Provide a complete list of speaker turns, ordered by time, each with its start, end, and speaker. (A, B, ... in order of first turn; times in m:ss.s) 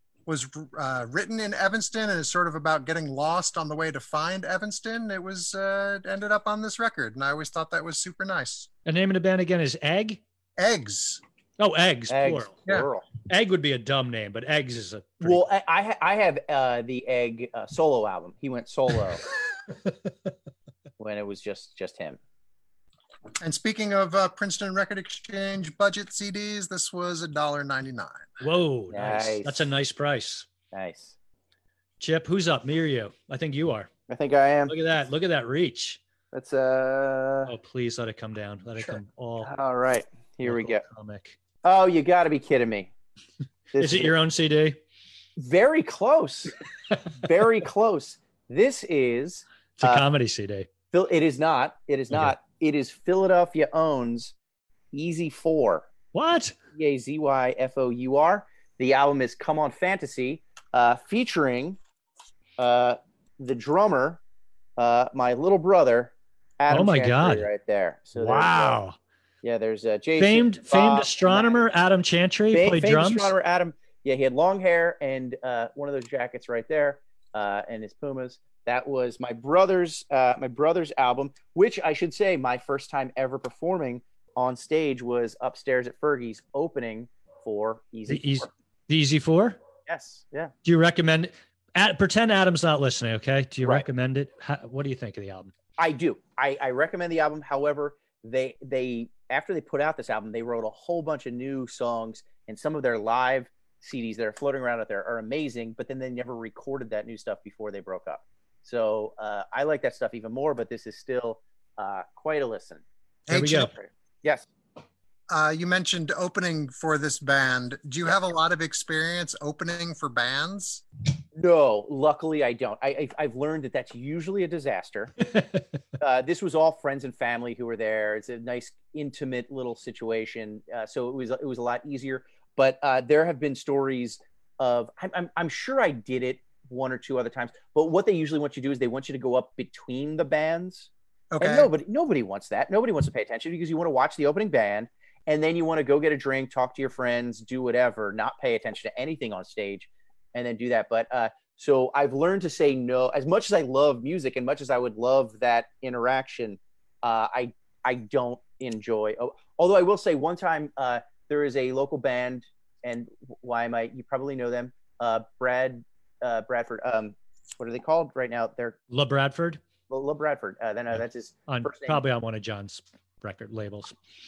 0:00.3-0:08.7 A
0:08.9-0:10.2 B
0:10.6-0:11.2 A
0:11.6-0:12.5 B
0:12.1-0:13.1 C
0:13.3-0:15.4 B
0:15.2-0:19.2 C
0:19.8-0:20.3 B
0:21.0-0:22.2 C
0:23.4-0:28.4 A
0:28.4-0:30.5 B
0:28.9-0:29.6 C
0:30.7-0:31.2 C
0:32.0-0:33.9 B
0:34.1-0:34.7 C
0:34.7-0:36.0 B
0:36.3-0:37.5 C
0:37.5-0:39.5 B
0:38.8-0:40.8 C
0:40.4-0:41.4 B
0:41.6-0:42.9 C
0:43.8-0:44.1 C
0:43.8-0:44.8 B
0:45.4-0:46.6 C
0:47.2-0:50.0 C
0:49.8-0:50.7 B
0:50.9-0:54.3 C
0:52.1-0:52.4 B
0:54.9-0:55.9 C
0:56.1-0:56.6 B
0:56.7-1:01.8 C
1:02.6-1:04.2 C
1:04.8-1:08.8 C
1:06.7-1:07.5 B
1:08.2-1:09.0 B
1:09.4-1:11.6 C
1:10.2-1:13.3 B
1:12.5-1:28.5 C
1:28.1-1:29.6 B
1:29.9-1:30.5 C
1:30.6-1:35.5 B
1:35.8-1:52.8 C
1:53.3-1:53.7 A
1:53.3-1:53.7 B
1:53.7-1:54.5 C
1:55.3-2:00.8 A
2:01.4-2:05.2 C
2:05.3-2:05.6 B
2:06.0-2:48.8 C
2:21.3-2:21.7 A
2:48.9-2:49.6 B
2:49.9-2:52.0 C
2:50.9-2:54.0 B